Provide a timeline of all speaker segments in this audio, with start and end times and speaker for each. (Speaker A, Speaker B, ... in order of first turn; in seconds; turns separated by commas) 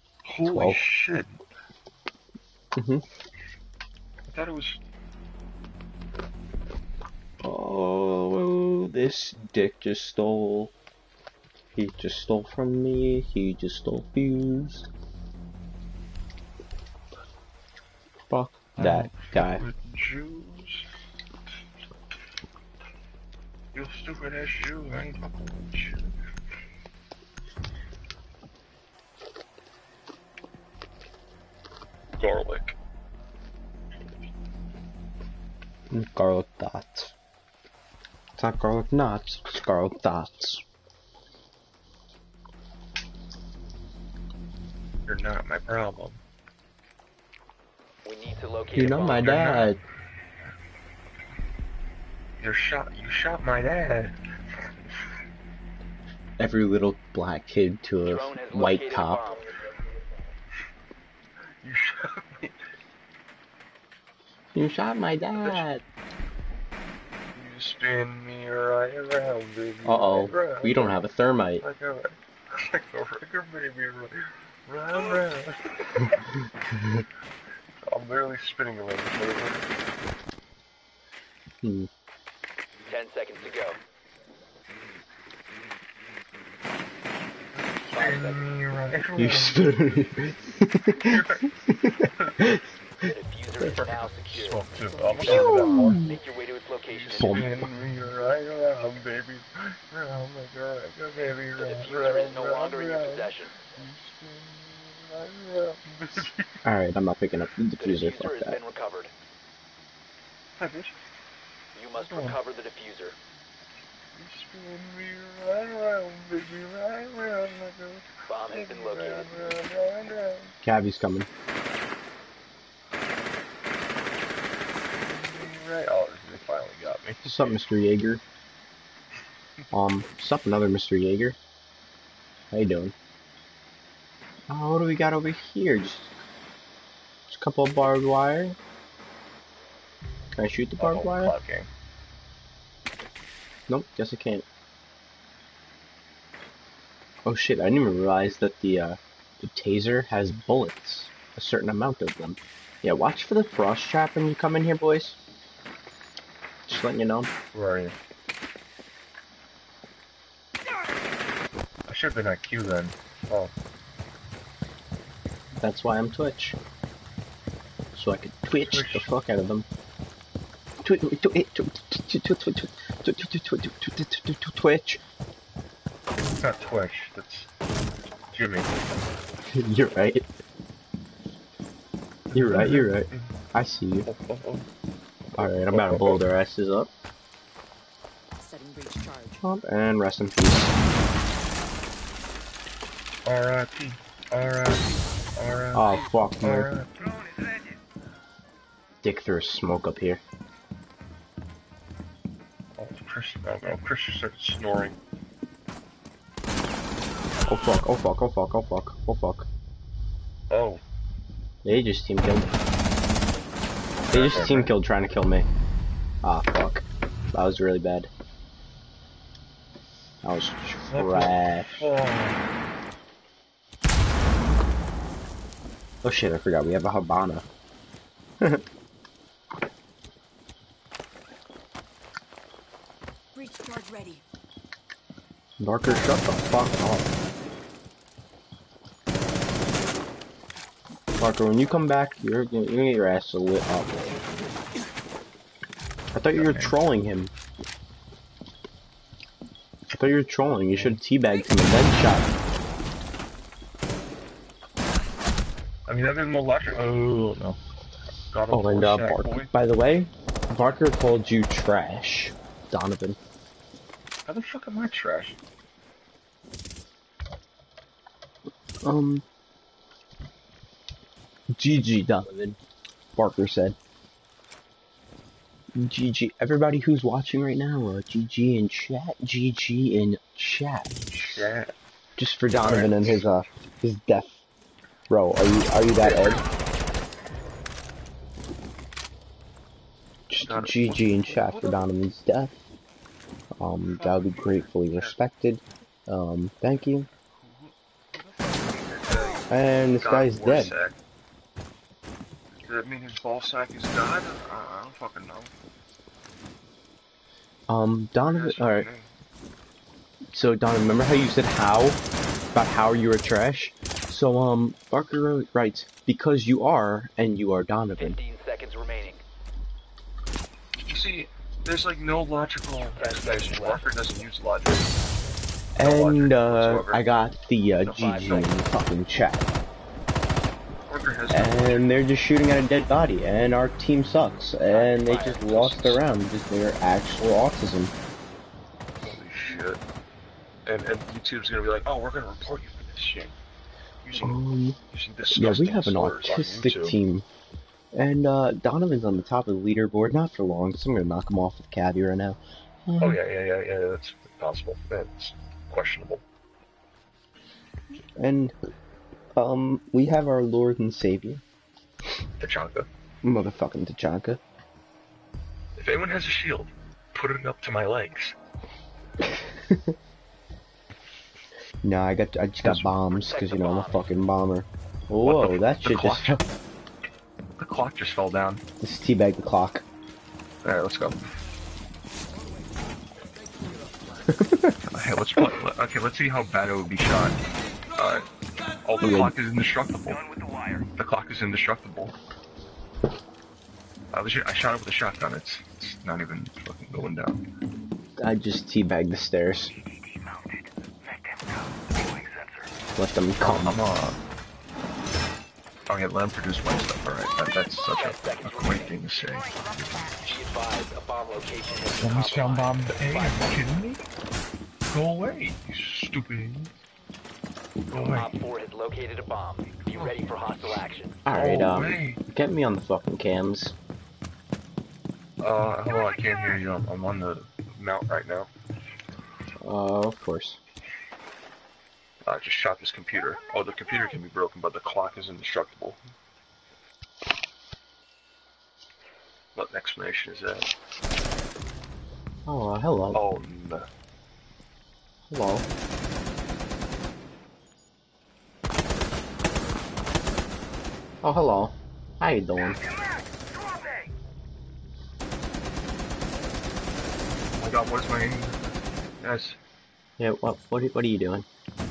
Speaker A: 0.2-1.4, Speaker B: 0.5-0.8, Speaker B: 2.8-3.0, Speaker A: 4.3-4.8, Speaker B: 7.4-10.7, Speaker B: 11.7-14.9, Speaker B: 18.3-19.6, Speaker A: 18.8-20.9, Speaker A: 23.7-26.2, Speaker A: 32.2-32.8, Speaker B: 35.9-37.1, Speaker B: 38.4-40.6, Speaker A: 45.1-46.2, Speaker C: 48.0-49.3, Speaker B: 48.8-49.8, Speaker A: 48.9-49.8, Speaker A: 52.4-54.2, Speaker B: 56.4-59.2, Speaker C: 58.0-59.5, Speaker A: 61.6-62.6, Speaker B: 64.5-65.8, Speaker A: 65.4-65.7, Speaker A: 67.3-71.0, Speaker B: 69.8-71.7, Speaker A: 71.6-76.2, Speaker A: 77.8-79.7, Speaker B: 81.6-81.9, Speaker C: 82.9-83.8, Speaker A: 87.6-90.2, Speaker C: 87.9-88.4, Speaker B: 89.2-92.6, Speaker A: 91.0-91.5, Speaker C: 93.0-97.6, Speaker A: 93.6-96.1, Speaker B: 95.2-96.2, Speaker A: 97.0-106.6, Speaker B: 97.1-97.5, Speaker C: 101.6-103.5, Speaker B: 106.6-108.6, Speaker C: 107.8-109.1, Speaker A: 110.6-110.9, Speaker C: 111.7-113.2, Speaker A: 111.9-112.4, Speaker A: 114.2-120.5, Speaker C: 118.3-119.5, Speaker B: 120.6-121.3, Speaker A: 125.0-127.6, Speaker B: 127.2-128.2, Speaker B: 129.7-131.4, Speaker B: 132.5-132.9, Speaker B: 134.5-136.1, Speaker B: 137.3-138.6, Speaker B: 140.3-141.4, Speaker A: 140.8-141.7, Speaker B: 143.7-144.4, Speaker B: 147.2-155.2, Speaker B: 156.7-157.3, Speaker A: 157.5-158.0, Speaker A: 161.9-163.5, Speaker B: 165.6-166.6, Speaker B: 167.9-169.7, Speaker A: 168.6-169.1, Speaker B: 170.8-175.0, Speaker A: 176.4-177.5, Speaker A: 178.3-178.7, Speaker B: 179.5-180.3, Speaker A: 182.3-183.3, Speaker B: 182.3-184.1, Speaker A: 184.1-184.7, Speaker A: 185.3-186.3, Speaker B: 185.4-186.9, Speaker D: 188.4-189.4, Speaker B: 189.4-190.7, Speaker A: 193.2-197.2, Speaker B: 195.7-196.7, Speaker B: 199.0-200.2, Speaker A: 202.8-205.0, Speaker B: 207.5-209.5, Speaker A: 210.5-210.8, Speaker B: 211.6-212.6, Speaker A: 214.1-214.8, Speaker B: 214.1-215.5, Speaker B: 216.2-218.1, Speaker B: 220.2-221.8, Speaker A: 220.9-222.5, Speaker B: 226.0-227.4, Speaker D: 233.3-234.2, Speaker B: 235.6-237.2, Speaker B: 241.2-244.2, Speaker B: 246.1-247.3, Speaker A: 246.3-246.8, Speaker B: 249.9-252.3, Speaker A: 250.7-251.0, Speaker A: 255.9-257.6, Speaker A: 258.3-259.5, Speaker B: 258.5-263.2, Speaker A: 264.3-265.4, Speaker B: 268.8-269.2, Speaker B: 271.5-272.6, Speaker B: 273.2-273.8, Speaker B: 275.8-281.4, Speaker A: 281.1-281.8, Speaker B: 282.2-284.4, Speaker A: 282.6-283.3, Speaker B: 285.1-286.4, Speaker A: 286.0-286.4, Speaker B: 290.3-292.6, Speaker A: 290.4-291.9, Speaker B: 293.6-297.1, Speaker A: 293.9-295.2, Speaker A: 297.1-301.0, Speaker B: 299.5-300.7, Speaker A: 302.6-305.5, Speaker B: 307.7-308.9, Speaker A: 308.3-309.1, Speaker B: 310.3-312.0, Speaker B: 312.5-318.2, Speaker C: 318.0-319.2, Speaker A: 320.8-325.0, Speaker C: 322.9-324.0, Speaker B: 325.8-329.5, Speaker A: 325.8-327.1, Speaker C: 327.8-328.6, Speaker A: 328.1-328.5, Speaker A: 330.9-331.9, Speaker B: 331.3-337.9, Speaker C: 334.7-335.7, Speaker A: 335.1-336.0, Speaker A: 339.0-339.8, Speaker A: 340.6-343.4, Speaker A: 344.0-347.0, Speaker B: 344.2-344.8, Speaker B: 345.3-347.3, Speaker B: 347.9-353.2, Speaker A: 353.0-356.2, Speaker B: 358.2-358.5, Speaker B: 359.3-361.4, Speaker A: 362.4-362.9, Speaker B: 363.2-364.4, Speaker A: 365.8-368.4, Speaker B: 369.3-369.9, Speaker B: 371.8-376.4, Speaker A: 372.6-372.9, Speaker C: 373.1-374.1, Speaker A: 375.2-376.4, Speaker A: 377.6-378.6, Speaker B: 378.8-379.9, Speaker A: 380.6-381.2, Speaker B: 384.3-384.8, Speaker A: 384.8-387.4, Speaker A: 387.9-388.3, Speaker A: 388.8-390.2, Speaker B: 389.0-389.4, Speaker E: 390.2-390.8, Speaker A: 390.9-392.1, Speaker A: 394.1-397.4, Speaker B: 398.2-399.7, Speaker E: 399.8-402.7, Speaker B: 403.0-403.8, Speaker A: 403.4-404.2, Speaker A: 405.9-410.2, Speaker C: 407.9-408.9, Speaker E: 408.6-410.4, Speaker C: 410.2-413.6, Speaker A: 411.9-414.0, Speaker A: 414.9-416.7, Speaker A: 417.9-418.3, Speaker C: 417.9-421.2, Speaker A: 419.9-420.8, Speaker B: 421.2-423.8, Speaker A: 421.3-422.2, Speaker A: 425.4-428.5, Speaker B: 429.6-430.6, Speaker A: 432.2-436.0, Speaker A: 439.6-440.7, Speaker B: 442.5-443.2, Speaker A: 443.1-443.9, Speaker B: 445.3-445.7, Speaker B: 451.2-452.8, Speaker A: 457.6-458.6, Speaker A: 459.2-459.6, Speaker B: 460.2-461.5